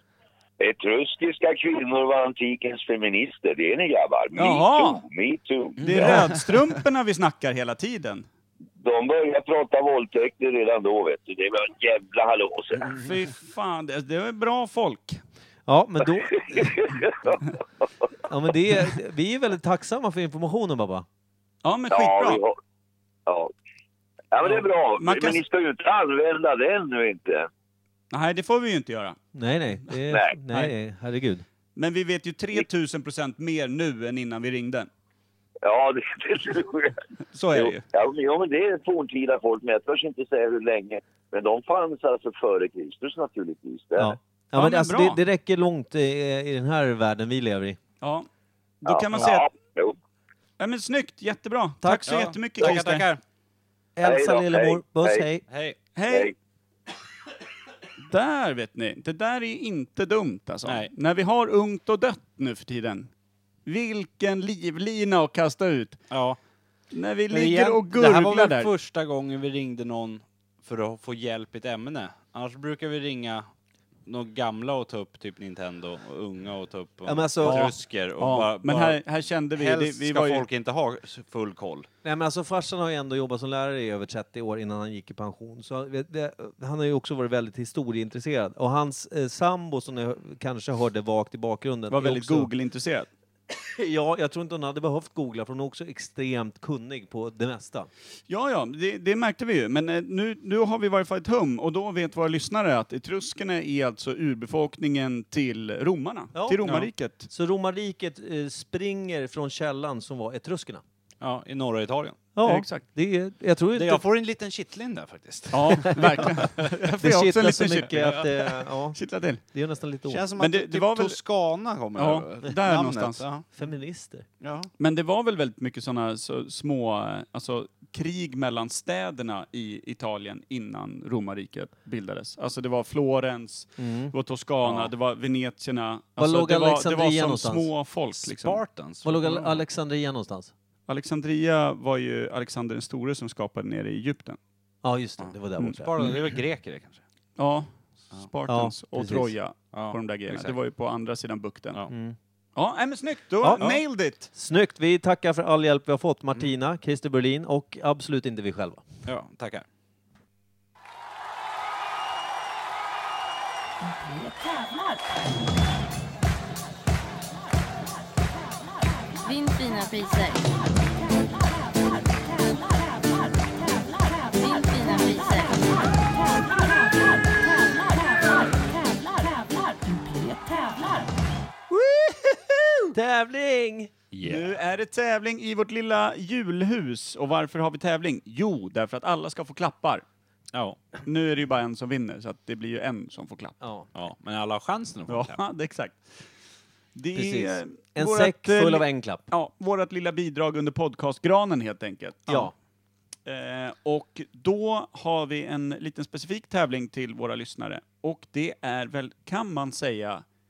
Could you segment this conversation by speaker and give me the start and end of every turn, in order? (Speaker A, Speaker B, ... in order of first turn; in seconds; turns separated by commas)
Speaker A: 0.6-5.8, Speaker B: 4.4-5.0, Speaker B: 5.8-8.3, Speaker C: 5.8-6.5, Speaker A: 8.8-13.0, Speaker B: 12.9-15.2, Speaker D: 15.7-16.7, Speaker A: 16.4-17.5, Speaker D: 18.3-21.1, Speaker B: 21.6-22.4, Speaker A: 21.9-22.6, Speaker A: 23.3-23.5, Speaker A: 24.3-27.5, Speaker B: 24.5-25.4, Speaker B: 28.1-29.2, Speaker D: 29.3-31.4, Speaker A: 30.1-30.4, Speaker B: 31.8-34.9, Speaker A: 35.6-37.0, Speaker B: 37.3-37.9, Speaker A: 37.5-44.2, Speaker D: 44.0-47.8, Speaker B: 44.5-45.2, Speaker B: 48.0-48.3, Speaker B: 48.8-49.5, Speaker A: 48.9-50.0, Speaker B: 50.6-53.1, Speaker D: 51.8-52.1, Speaker C: 52.1-53.2, Speaker D: 54.0-55.4, Speaker A: 54.0-55.2, Speaker C: 55.5-55.8, Speaker B: 56.0-56.3, Speaker A: 56.1-56.3, Speaker B: 58.0-63.1, Speaker C: 60.6-60.9, Speaker B: 63.7-66.1, Speaker C: 66.1-66.4, Speaker B: 66.9-68.7, Speaker C: 67.3-73.5, Speaker C: 74.1-81.9, Speaker D: 77.1-77.6, Speaker B: 77.4-80.5, Speaker D: 82.0-92.5, Speaker B: 91.9-93.1, Speaker D: 93.8-97.9, Speaker B: 98.3-107.3, Speaker D: 106.3-106.6, Speaker D: 107.3-110.8, Speaker C: 111.2-112.2, Speaker D: 112.4-114.0, Speaker B: 112.5-112.8, Speaker C: 113.8-116.7, Speaker B: 115.5-119.4, Speaker D: 117.0-120.2, Speaker C: 117.9-118.2, Speaker C: 120.1-123.5, Speaker B: 120.4-121.2, Speaker B: 122.0-123.3, Speaker D: 123.5-124.2, Speaker C: 124.4-124.7, Speaker B: 124.8-138.6, Speaker D: 133.8-134.1, Speaker C: 134.7-134.9, Speaker D: 136.2-137.7, Speaker C: 138.1-139.6, Speaker D: 139.0-140.5, Speaker B: 140.9-144.4, Speaker D: 144.8-145.9, Speaker C: 145.2-147.0, Speaker B: 145.6-146.2, Speaker B: 147.4-151.8, Speaker D: 148.5-149.3, Speaker C: 149.7-150.6, Speaker D: 151.9-152.2, Speaker B: 152.6-154.3, Speaker D: 154.3-158.8, Speaker C: 159.1-159.7, Speaker E: 169.2-170.5, Speaker E: 174.3-175.7, Speaker B: 181.7-182.8, Speaker D: 182.9-183.9, Speaker C: 184.1-184.6, Speaker B: 184.2-190.1, Speaker C: 190.5-190.8, Speaker B: 191.1-193.6, Speaker D: 193.6-193.9, Speaker C: 193.9-195.4, Speaker B: 195.1-196.1, Speaker B: 196.9-202.5, Speaker D: 197.2-199.2, Speaker D: 202.3-202.5, Speaker B: 203.3-210.2